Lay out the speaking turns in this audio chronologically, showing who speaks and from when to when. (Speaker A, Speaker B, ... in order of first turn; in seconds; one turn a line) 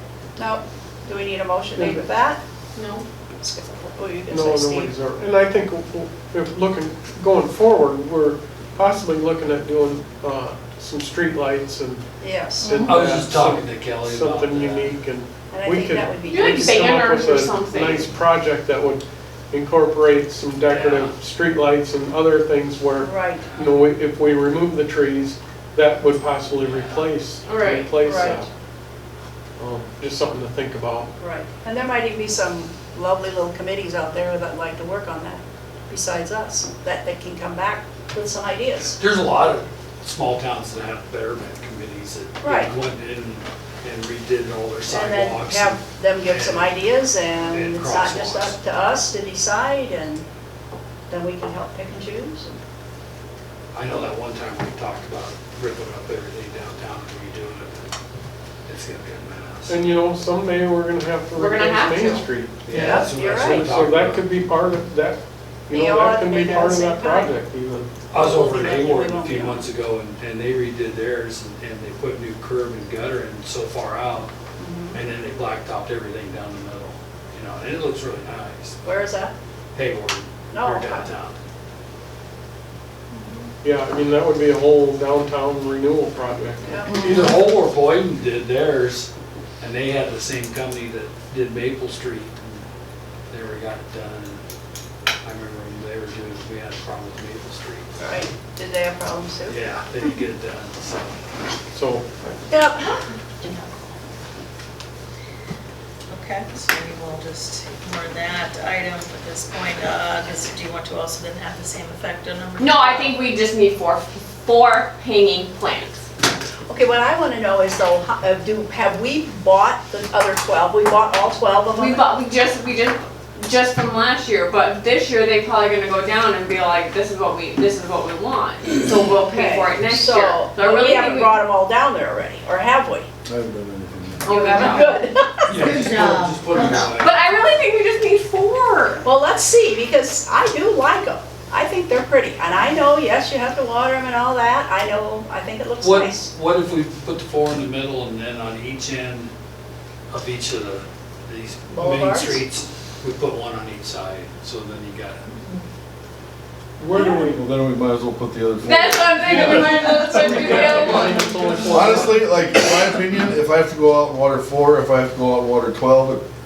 Speaker A: 0.4-2.4
Speaker B: 1.8-2.0
Speaker C: 2.8-3.0
Speaker A: 3.4-4.9
Speaker B: 4.3-12.0
Speaker A: 12.2-12.8
Speaker D: 12.6-12.9
Speaker B: 12.6-28.5
Speaker E: 12.8-15.0
Speaker A: 15.5-16.9
Speaker C: 16.3-18.1
Speaker E: 20.6-21.1
Speaker A: 23.0-23.5
Speaker E: 23.4-23.8
Speaker E: 26.6-27.1
Speaker C: 27.4-27.9
Speaker A: 28.0-28.4
Speaker B: 29.6-31.1
Speaker A: 31.2-39.0
Speaker E: 38.8-46.8
Speaker A: 42.4-42.7
Speaker A: 44.9-50.2
Speaker E: 47.4-48.6
Speaker A: 51.1-52.6
Speaker E: 53.7-57.9
Speaker E: 58.7-59.8
Speaker B: 59.7-67.9
Speaker C: 61.3-62.2
Speaker E: 62.6-64.4
Speaker A: 62.7-63.7
Speaker A: 65.7-67.3
Speaker E: 68.1-74.3
Speaker A: 68.1-69.7
Speaker A: 74.6-75.0
Speaker E: 74.9-78.9
Speaker A: 78.8-79.3
Speaker E: 79.7-81.4
Speaker A: 80.5-81.1
Speaker A: 83.1-83.5
Speaker B: 83.6-86.9
Speaker A: 86.6-87.4
Speaker D: 86.9-87.3
Speaker E: 86.9-89.1
Speaker E: 89.6-92.6
Speaker E: 93.3-94.4
Speaker E: 95.2-98.2
Speaker A: 98.0-99.6
Speaker E: 99.5-101.2
Speaker B: 101.7-102.1
Speaker A: 102.5-103.1
Speaker D: 103.4-103.9
Speaker D: 106.1-113.2
Speaker C: 112.6-116.0
Speaker A: 116.7-122.2
Speaker C: 121.7-131.4
Speaker A: 129.1-133.1
Speaker F: 133.3-134.9
Speaker C: 134.2-135.0
Speaker A: 134.2-135.7
Speaker E: 135.5-137.3
Speaker D: 135.6-136.9
Speaker C: 136.9-139.1
Speaker A: 139.1-146.3
Speaker E: 145.8-149.3
Speaker E: 150.1-155.6
Speaker A: 151.7-152.4
Speaker B: 156.8-157.4
Speaker F: 156.9-159.9
Speaker C: 158.6-161.3
Speaker B: 159.2-162.2
Speaker E: 160.2-162.2
Speaker F: 161.7-166.2